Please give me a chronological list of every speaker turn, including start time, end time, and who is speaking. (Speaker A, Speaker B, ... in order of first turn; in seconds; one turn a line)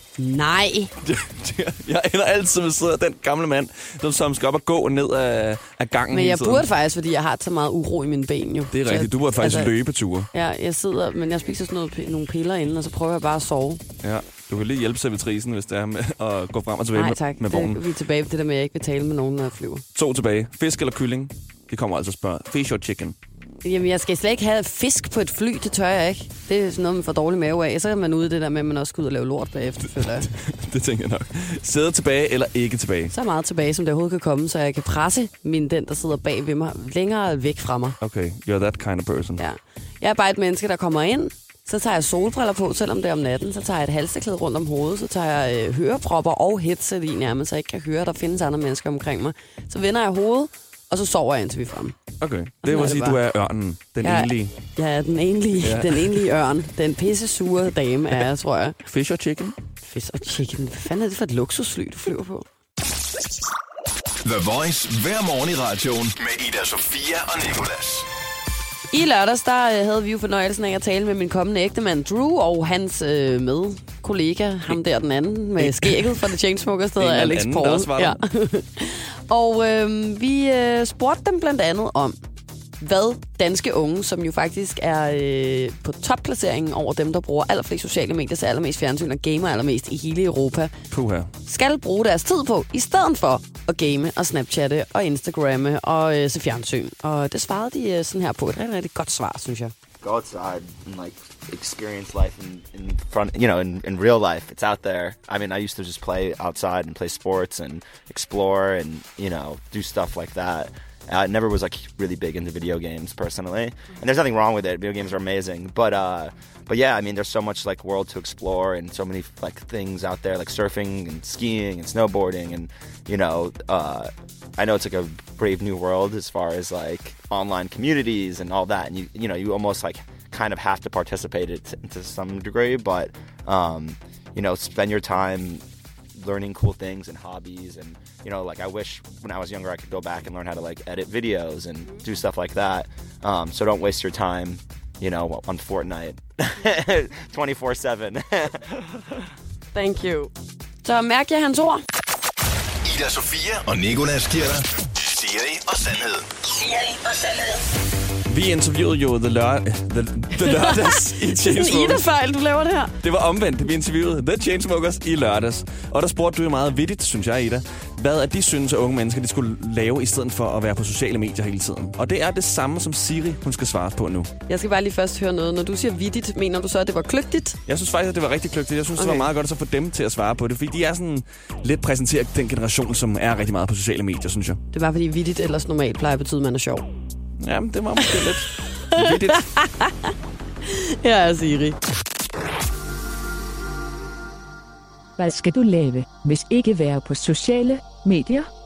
Speaker A: 0.2-0.9
Speaker B: 1.0-6.7
Speaker A: 6.1-9.8
Speaker B: 8.7-10.3
Speaker A: 10.3-13.8
Speaker B: 14.0-17.8
Speaker A: 16.9-19.8
Speaker B: 19.9-23.2
Speaker A: 23.6-30.3
Speaker B: 30.2-33.1
Speaker A: 33.1-38.0
Speaker B: 38.0-39.4
Speaker A: 39.4-52.0
Speaker B: 52.2-54.6
Speaker A: 52.6-53.2
Speaker A: 54.0-58.8
Speaker B: 55.6-56.2
Speaker B: 58.9-59.6
Speaker A: 59.8-62.5
Speaker C: 64.2-68.1
Speaker A: 68.9-82.2
Speaker B: 75.6-76.2
Speaker B: 77.0-78.2
Speaker A: 82.8-90.7
Speaker B: 90.9-91.3
Speaker A: 91.5-99.7
Speaker D: 100.0-135.6
Speaker D: 136.2-148.8
Speaker A: 149.7-150.3
Speaker A: 150.8-151.8
Speaker C: 152.8-156.3
Speaker B: 158.3-162.1
Speaker A: 160.4-162.9
Speaker B: 163.0-174.3
Speaker A: 174.5-177.6
Speaker B: 177.7-184.6
Speaker A: 179.0-179.3
Speaker A: 184.7-186.9
Speaker B: 187.4-189.5
Speaker A: 188.1-190.1
Speaker A: 190.6-191.8
Speaker E: 195.2-198.5